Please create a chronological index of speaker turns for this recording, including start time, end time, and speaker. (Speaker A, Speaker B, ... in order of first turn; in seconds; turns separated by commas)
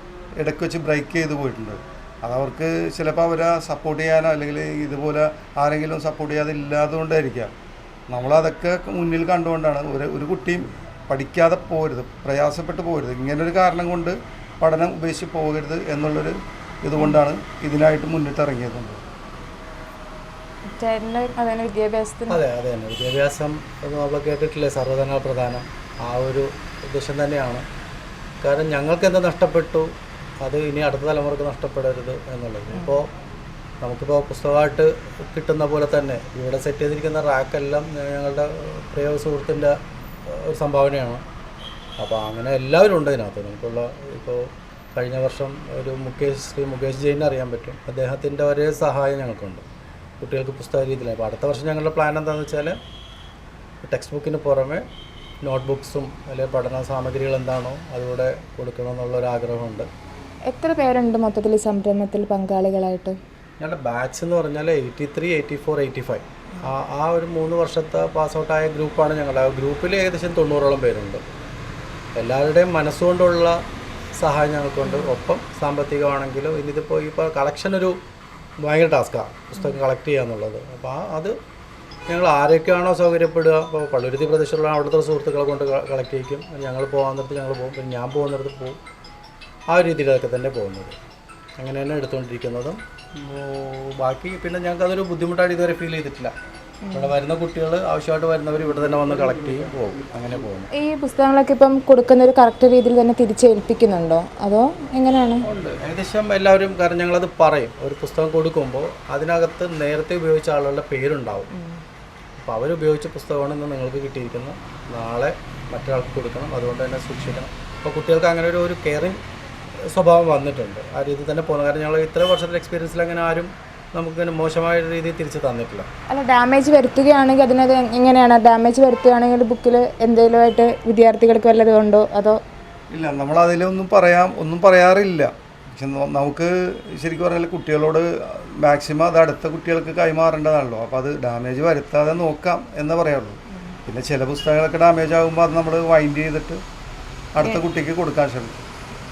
Speaker A: 0.4-7.5, Speaker A: 8.1-19.0, Speaker B: 20.7-22.4, Speaker C: 22.3-27.6, Speaker C: 28.4-29.9, Speaker C: 30.4-33.1, Speaker C: 33.8-39.7, Speaker C: 40.2-41.2, Speaker C: 42.0-49.6, Speaker C: 50.2-52.7, Speaker C: 53.8-54.8, Speaker C: 55.4-59.9, Speaker B: 60.5-63.1, Speaker C: 63.6-71.2, Speaker C: 72.2-73.5, Speaker C: 74.2-78.0, Speaker B: 74.8-75.1, Speaker C: 78.6-81.3, Speaker C: 82.1-88.8, Speaker C: 89.7-91.0, Speaker C: 91.6-96.3, Speaker B: 96.8-97.1, Speaker C: 96.9-100.7, Speaker B: 100.7-105.4, Speaker C: 105.5-111.5, Speaker B: 111.5-111.8, Speaker C: 112.4-119.2, Speaker C: 119.9-125.9, Speaker B: 126.1-132.4, Speaker A: 132.9-146.6, Speaker A: 147.3-148.6